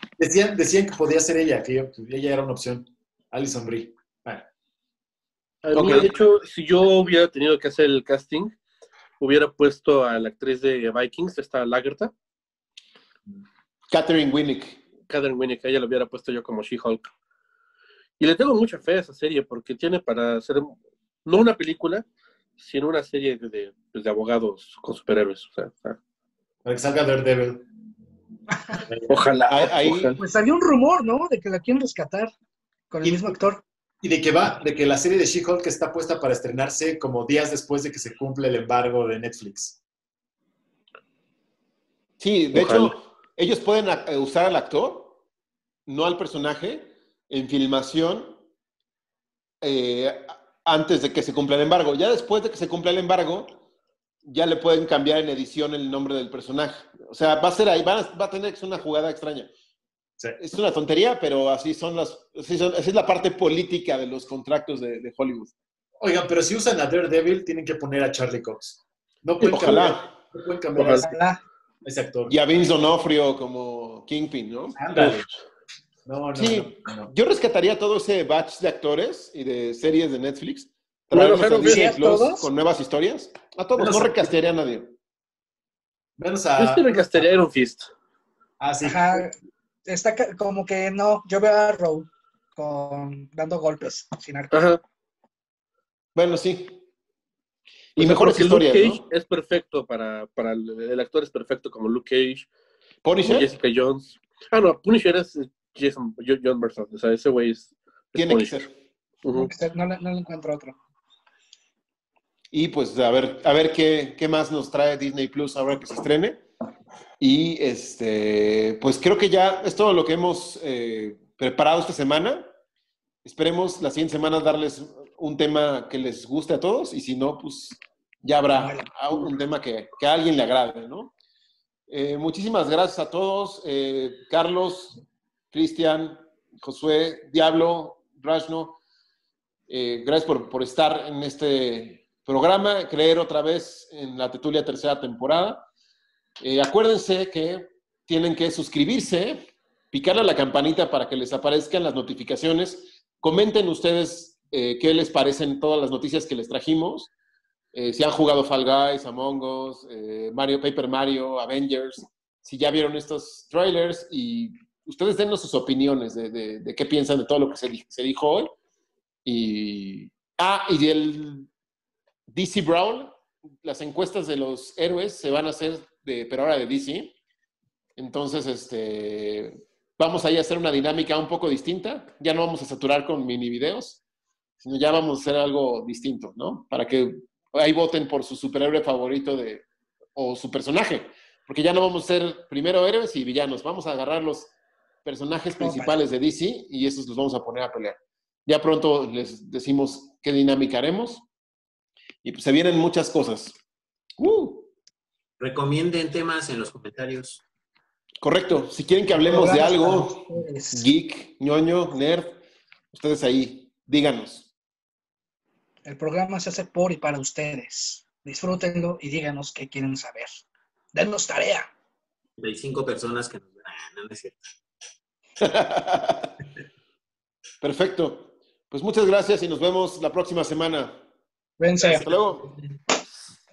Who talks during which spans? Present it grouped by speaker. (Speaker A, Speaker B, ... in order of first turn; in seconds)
Speaker A: 0.2-4.5, 26.6-27.7, 28.9-29.3, 33.0-33.4, 34.0-39.8, 66.0-71.2, 71.8-72.4, 74.8-75.3, 76.1-77.1, 83.8-84.3, 86.2-87.3, 88.6-89.3
Speaker B: 5.6-8.6, 9.2-12.1, 15.1-17.1, 18.2-22.1, 22.6-26.0, 29.1-30.2, 42.5-43.0, 69.4-69.8, 70.8-71.1, 75.0-75.3, 81.1-81.8, 86.6-87.9, 94.5-94.8, 98.0-102.5, 103.2-108.7, 109.2-109.5
Speaker C: 5.7-6.1, 13.9-14.8, 29.5-30.1, 42.2-45.2, 45.9-48.4, 49.6-53.6, 54.2-59.5, 60.4-65.5, 69.5-70.1, 72.3-74.8, 76.3-84.9, 96.2-96.8, 98.0-99.0, 103.0-103.5, 108.2-108.7, 112.5-116.4, 117.2-122.5, 123.2-131.1, 131.9-138.8, 139.7-145.7, 146.4-157.1, 157.7-168.5, 169.2-171.5, 172.3-177.1, 178.0-184.0, 184.6-194.5, 195.1-201.2, 202.2-203.6, 204.2-204.7, 208.2-210.2, 210.7-212.4, 212.9-214.5, 225.4-226.3, 227.6-231.0, 231.8-232.5
Speaker D: 30.2-32.3, 32.9-33.6, 71.0-71.4, 81.5-82.5, 88.8-89.3, 89.9-94.5, 109.3-110.8, 128.5-129.2, 195.6-196.0, 209.1-210.9, 215.8-220.4, 220.9-221.7, 231.6-232.1
Speaker E: 205.4-207.4, 222.4-224.4